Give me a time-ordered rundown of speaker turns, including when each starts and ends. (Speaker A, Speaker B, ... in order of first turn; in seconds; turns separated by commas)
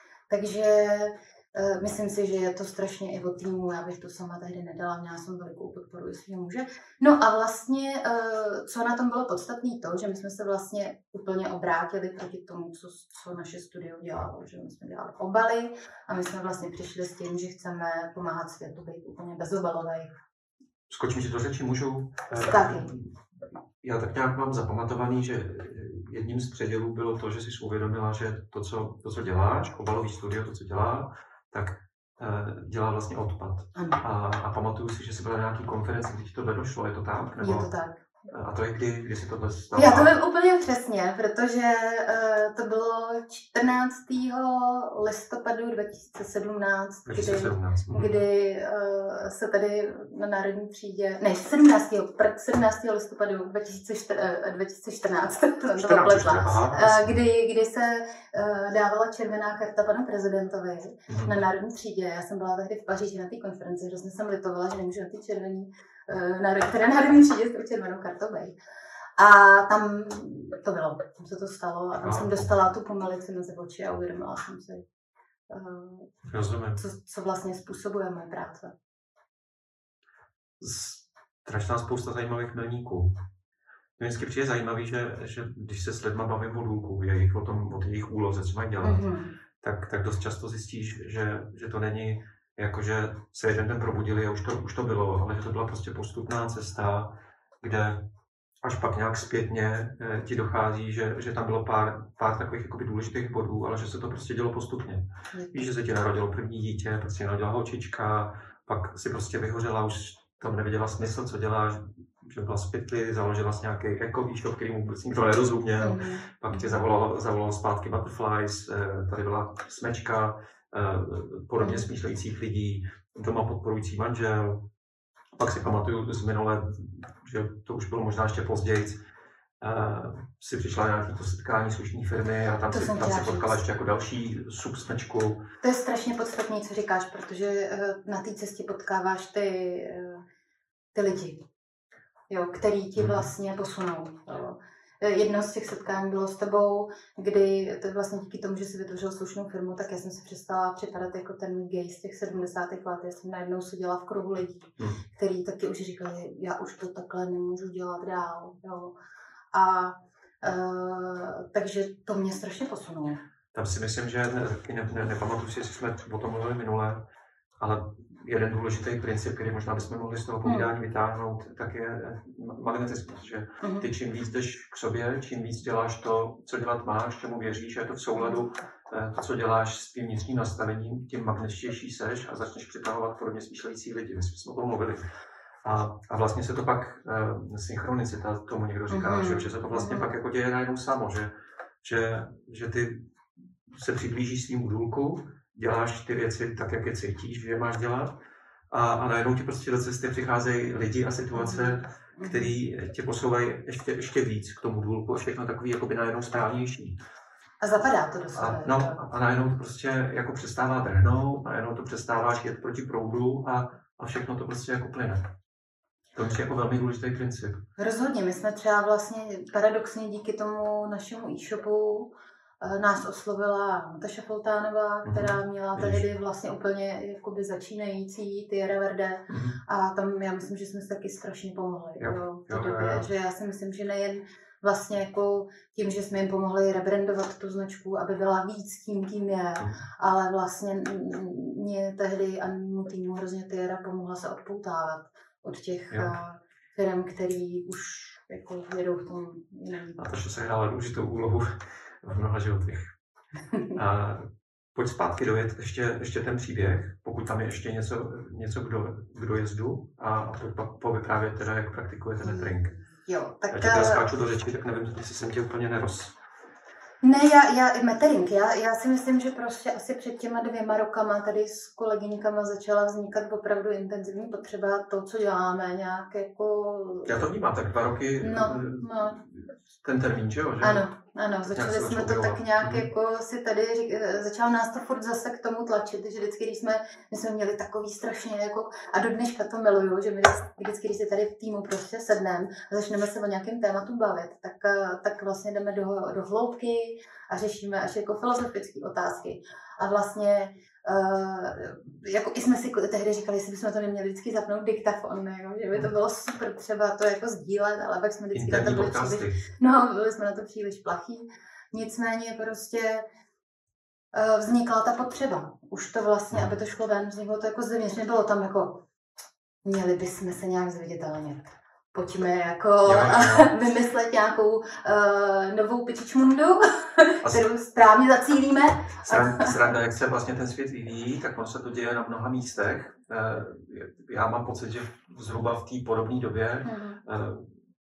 Speaker A: 0.3-20.1, Speaker B: 20.9-23.1, Speaker A: 22.4-22.9, Speaker B: 23.8-37.7, Speaker A: 33.7-34.0, Speaker A: 37.4-38.0, Speaker B: 38.3-40.1, Speaker A: 39.7-68.5, Speaker B: 47.1-48.1, Speaker B: 55.8-57.2, Speaker B: 61.1-61.4, Speaker A: 69.2-74.8, Speaker B: 72.0-72.5, Speaker A: 75.5-76.1, Speaker B: 76.2-76.8, Speaker A: 76.8-78.7, Speaker B: 80.6-83.2, Speaker B: 84.0-89.0, Speaker A: 88.8-89.3, Speaker B: 89.6-98.0, Speaker B: 98.6-124.7, Speaker A: 105.3-105.7, Speaker A: 115.8-116.8, Speaker A: 121.6-121.8, Speaker B: 125.3-129.0, Speaker B: 129.6-135.4, Speaker A: 132.7-133.6, Speaker A: 135.6-140.2, Speaker A: 140.9-141.4, Speaker A: 142.3-158.9, Speaker B: 143.0-143.3, Speaker A: 159.5-163.2, Speaker B: 163.5-167.0, Speaker B: 167.6-185.0, Speaker A: 170.4-170.7, Speaker A: 173.6-173.9, Speaker B: 185.6-191.3, Speaker A: 188.9-190.1, Speaker B: 191.8-193.0, Speaker B: 193.7-198.1, Speaker B: 198.7-207.0, Speaker A: 201.3-202.5, Speaker A: 207.6-209.0, Speaker B: 208.3-215.3, Speaker B: 216.2-217.6, Speaker A: 217.8-250.0, Speaker B: 225.0-226.0, Speaker B: 229.3-229.6, Speaker B: 232.0-233.1, Speaker B: 250.0-252.9, Speaker B: 253.7-262.7, Speaker A: 262.2-264.0, Speaker B: 263.5-266.1, Speaker A: 267.0-277.2, Speaker B: 277.1-280.8, Speaker A: 278.2-279.2, Speaker A: 280.6-313.0, Speaker B: 281.5-282.9, Speaker B: 308.3-309.4, Speaker A: 314.1-318.8, Speaker A: 319.6-329.6, Speaker B: 322.8-323.5, Speaker B: 329.0-337.5, Speaker A: 336.6-337.0